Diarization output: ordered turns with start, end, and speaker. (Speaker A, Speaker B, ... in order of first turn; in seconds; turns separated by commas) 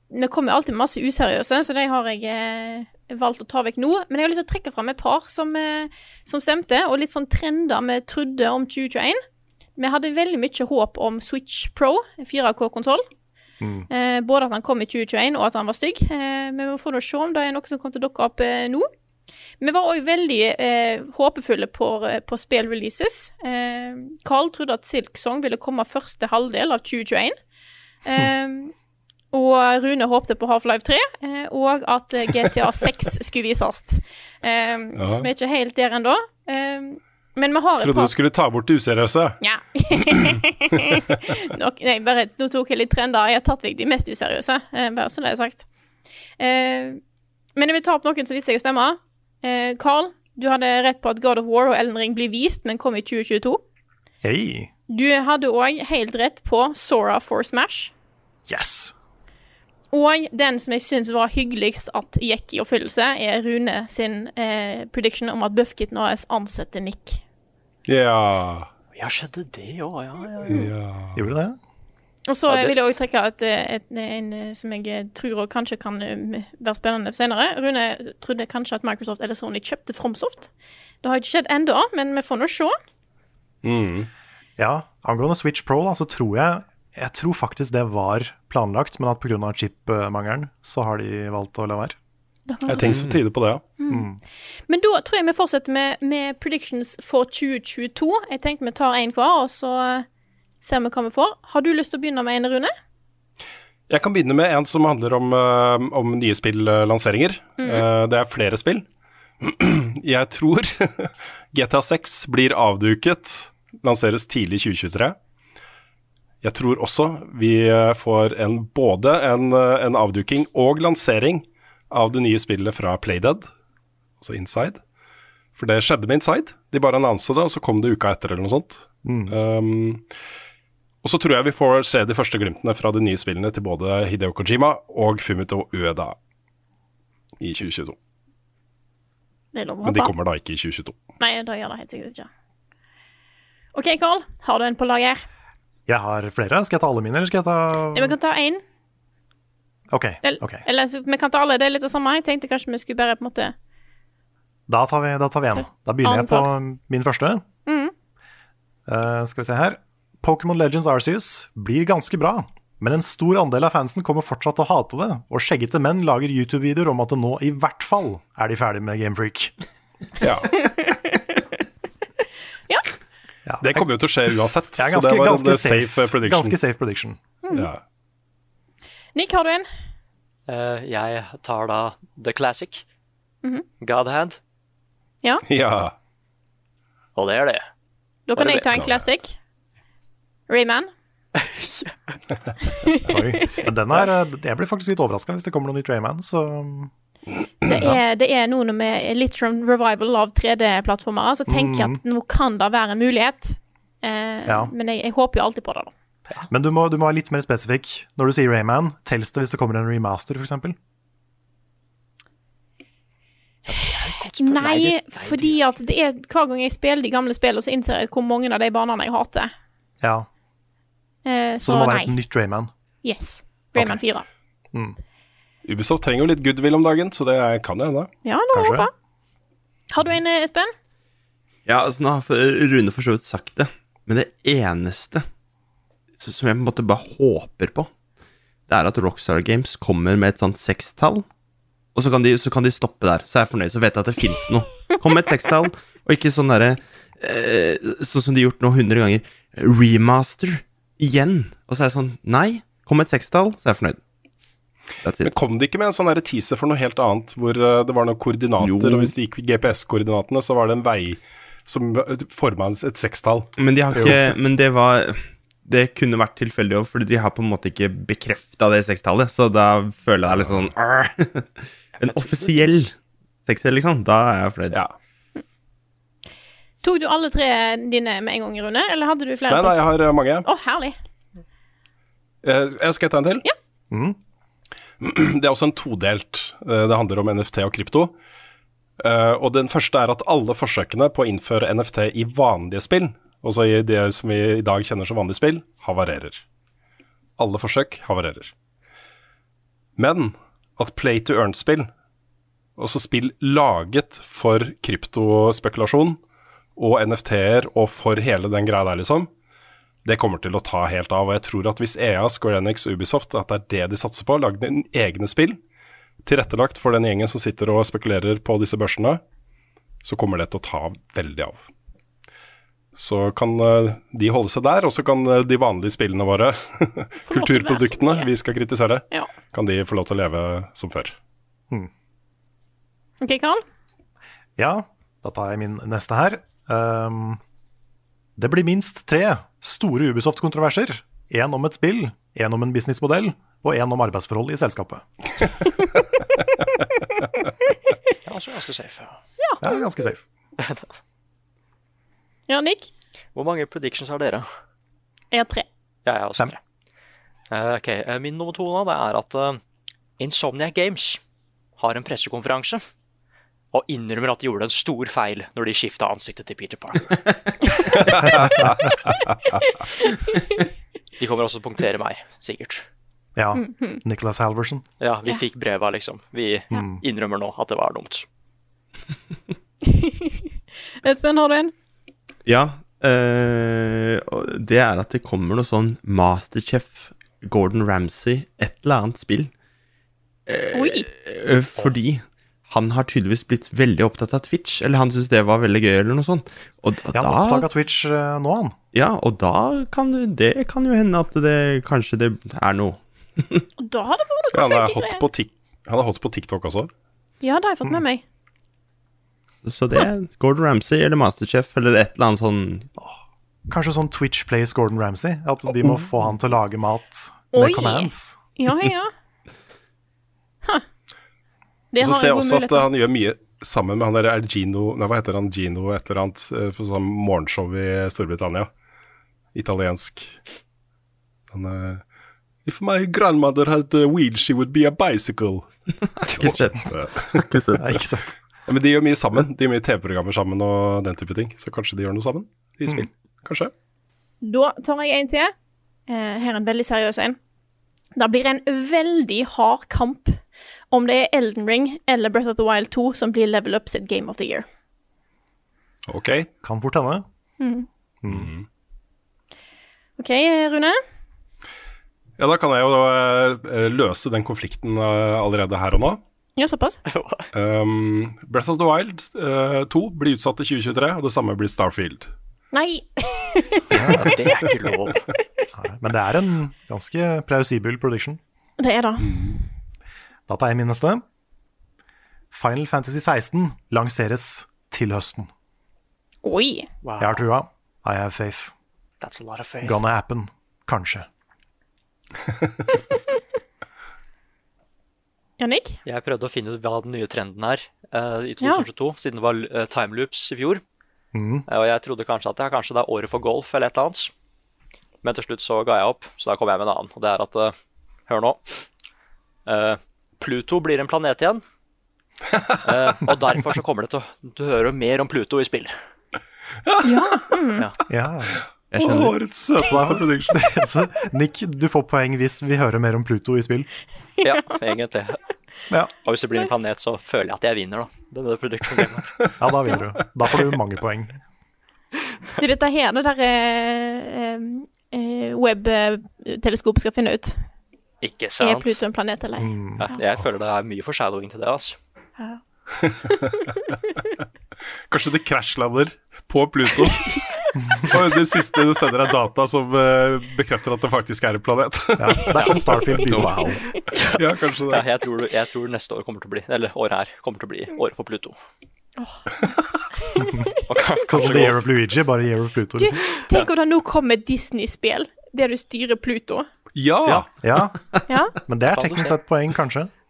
Speaker A: 0.1-9.2, Speaker A: 9.8-13.1, Speaker B: 13.6-13.9, Speaker A: 13.9-18.9, Speaker A: 19.6-27.4, Speaker A: 28.0-28.7, Speaker A: 29.3-38.2, Speaker C: 35.0-35.3, Speaker C: 37.8-39.4, Speaker A: 39.4-45.7, Speaker A: 46.4-47.0, Speaker A: 47.6-53.6, Speaker B: 54.2-54.7, Speaker A: 54.9-57.9, Speaker B: 58.5-58.9, Speaker A: 59.9-67.2, Speaker C: 67.9-68.7, Speaker D: 68.9-70.7, Speaker C: 70.5-71.2, Speaker B: 71.1-71.6, Speaker A: 72.3-80.5, Speaker D: 72.5-72.8, Speaker A: 81.0-82.8, Speaker C: 83.6-84.1, Speaker B: 84.6-92.0, Speaker A: 92.5-92.8, Speaker C: 92.7-93.6, Speaker E: 92.8-93.2, Speaker A: 93.8-94.1, Speaker B: 93.9-94.2, Speaker A: 94.7-100.1, Speaker A: 100.6-102.7, Speaker C: 103.9-108.9, Speaker A: 107.6-107.8, Speaker C: 109.4-115.2, Speaker C: 116.4-123.5, Speaker C: 124.2-124.8, Speaker C: 125.6-130.1, Speaker B: 129.1-129.3, Speaker C: 131.0-136.2, Speaker C: 137.4-138.0, Speaker A: 139.5-140.1, Speaker C: 139.8-141.0, Speaker A: 141.2-142.3, Speaker A: 143.8-145.3, Speaker B: 145.9-148.2, Speaker A: 147.9-148.6, Speaker B: 149.9-150.7, Speaker A: 150.2-153.5, Speaker B: 154.7-157.4, Speaker A: 155.5-156.5, Speaker A: 157.7-157.9, Speaker B: 158.9-169.5, Speaker C: 170.2-170.5, Speaker A: 170.6-171.2, Speaker B: 173.5-173.9, Speaker C: 173.6-176.6, Speaker B: 174.8-177.2, Speaker C: 177.5-177.8, Speaker A: 179.2-179.7, Speaker D: 180.5-182.8, Speaker D: 183.8-184.4, Speaker C: 185.5-185.9, Speaker D: 187.2-187.7, Speaker A: 188.3-189.3, Speaker D: 188.4-188.7, Speaker C: 188.7-189.1, Speaker A: 190.5-190.9, Speaker D: 191.4-192.2, Speaker A: 192.8-193.6, Speaker B: 193.1-196.9, Speaker A: 197.7-205.9, Speaker B: 201.5-202.0, Speaker B: 204.5-204.7, Speaker B: 206.5-210.8, Speaker D: 213.7-215.6, Speaker A: 214.4-219.5, Speaker B: 220.0-220.3, Speaker A: 221.2-222.2, Speaker B: 221.6-222.7, Speaker A: 223.0-224.3, Speaker C: 225.7-228.1, Speaker A: 228.2-228.9, Speaker B: 228.5-228.9, Speaker A: 229.9-230.7, Speaker E: 231.7-235.2, Speaker E: 236.2-237.9, Speaker E: 238.7-241.3, Speaker E: 241.9-254.0, Speaker E: 255.0-255.3, Speaker C: 255.2-264.2, Speaker E: 258.6-259.1, Speaker E: 263.6-274.8, Speaker D: 272.1-272.9, Speaker A: 276.8-279.9, Speaker C: 279.5-280.5, Speaker A: 280.4-281.0, Speaker C: 282.4-283.4, Speaker B: 283.9-284.2, Speaker C: 285.0-288.1, Speaker C: 289.0-296.4, Speaker C: 297.4-298.5, Speaker C: 300.0-301.9, Speaker C: 302.8-306.2, Speaker C: 306.8-309.3, Speaker C: 310.1-315.6, Speaker C: 316.2-319.2, Speaker C: 320.0-321.6, Speaker C: 322.9-331.1, Speaker A: 327.3-328.3, Speaker A: 333.2-333.6, Speaker B: 334.6-337.4, Speaker B: 338.4-345.1, Speaker D: 348.3-349.2, Speaker A: 349.4-349.6, Speaker B: 349.6-350.2, Speaker D: 350.6-350.9, Speaker A: 352.5-352.9, Speaker D: 353.4-354.5, Speaker A: 355.3-355.6, Speaker D: 356.1-356.6, Speaker D: 357.5-359.6, Speaker D: 360.2-361.2, Speaker D: 361.8-362.8, Speaker D: 363.7-367.2, Speaker C: 368.0-369.6, Speaker D: 371.2-372.9, Speaker B: 373.4-374.8, Speaker A: 373.6-374.0, Speaker D: 375.0-378.2, Speaker B: 376.7-377.0, Speaker A: 379.9-380.4, Speaker A: 381.0-381.7, Speaker E: 382.5-389.5, Speaker E: 390.5-397.7, Speaker A: 390.7-391.1, Speaker B: 397.1-398.8, Speaker E: 398.9-403.6, Speaker A: 403.8-405.2, Speaker C: 404.5-406.9, Speaker A: 407.4-408.2, Speaker E: 409.6-412.9, Speaker B: 413.7-418.4, Speaker A: 417.5-419.1, Speaker A: 421.9-422.9, Speaker C: 422.0-428.7, Speaker C: 429.6-430.4, Speaker C: 431.5-432.0, Speaker C: 432.6-435.6, Speaker E: 436.2-438.0, Speaker C: 436.3-437.4, Speaker B: 437.8-438.4, Speaker C: 438.7-443.7, Speaker A: 444.4-445.5, Speaker A: 446.1-447.4, Speaker A: 448.2-454.7, Speaker C: 456.1-456.5, Speaker B: 456.6-457.2, Speaker A: 457.6-457.9, Speaker B: 458.2-458.5, Speaker C: 458.3-458.7, Speaker A: 460.2-461.0, Speaker C: 462.4-466.2, Speaker A: 466.6-467.0, Speaker D: 467.1-467.5, Speaker C: 467.5-472.3, Speaker A: 472.7-474.3, Speaker B: 473.9-474.3, Speaker D: 474.1-475.3, Speaker B: 475.8-478.4, Speaker A: 478.8-479.6, Speaker C: 479.2-479.5, Speaker B: 480.5-481.2, Speaker B: 482.5-485.5, Speaker A: 486.4-486.9, Speaker D: 487.0-487.4, Speaker B: 487.2-488.7, Speaker D: 489.2-490.0, Speaker B: 489.8-491.3, Speaker A: 495.6-496.0, Speaker D: 496.1-500.8, Speaker B: 501.3-501.6, Speaker D: 501.7-504.3, Speaker D: 505.2-507.7, Speaker D: 508.3-508.9, Speaker D: 509.7-511.6, Speaker D: 512.8-516.0, Speaker C: 516.9-517.5, Speaker A: 517.0-517.8, Speaker B: 518.1-523.9, Speaker E: 518.9-519.3, Speaker C: 519.0-520.8, Speaker D: 524.4-525.4, Speaker D: 526.2-529.5, Speaker B: 529.6-531.4, Speaker A: 532.6-537.7, Speaker D: 538.2-539.0, Speaker A: 538.6-540.2, Speaker B: 539.6-540.1, Speaker D: 540.0-542.0, Speaker C: 545.1-547.4, Speaker C: 548.1-553.7, Speaker B: 552.2-553.8, Speaker D: 554.1-558.6, Speaker C: 554.3-555.0, Speaker A: 559.2-560.7, Speaker D: 560.9-561.8, Speaker B: 561.3-563.3, Speaker C: 561.4-561.8, Speaker A: 563.0-566.7, Speaker C: 567.0-567.5, Speaker B: 567.3-570.1, Speaker A: 568.3-568.5, Speaker D: 568.9-569.4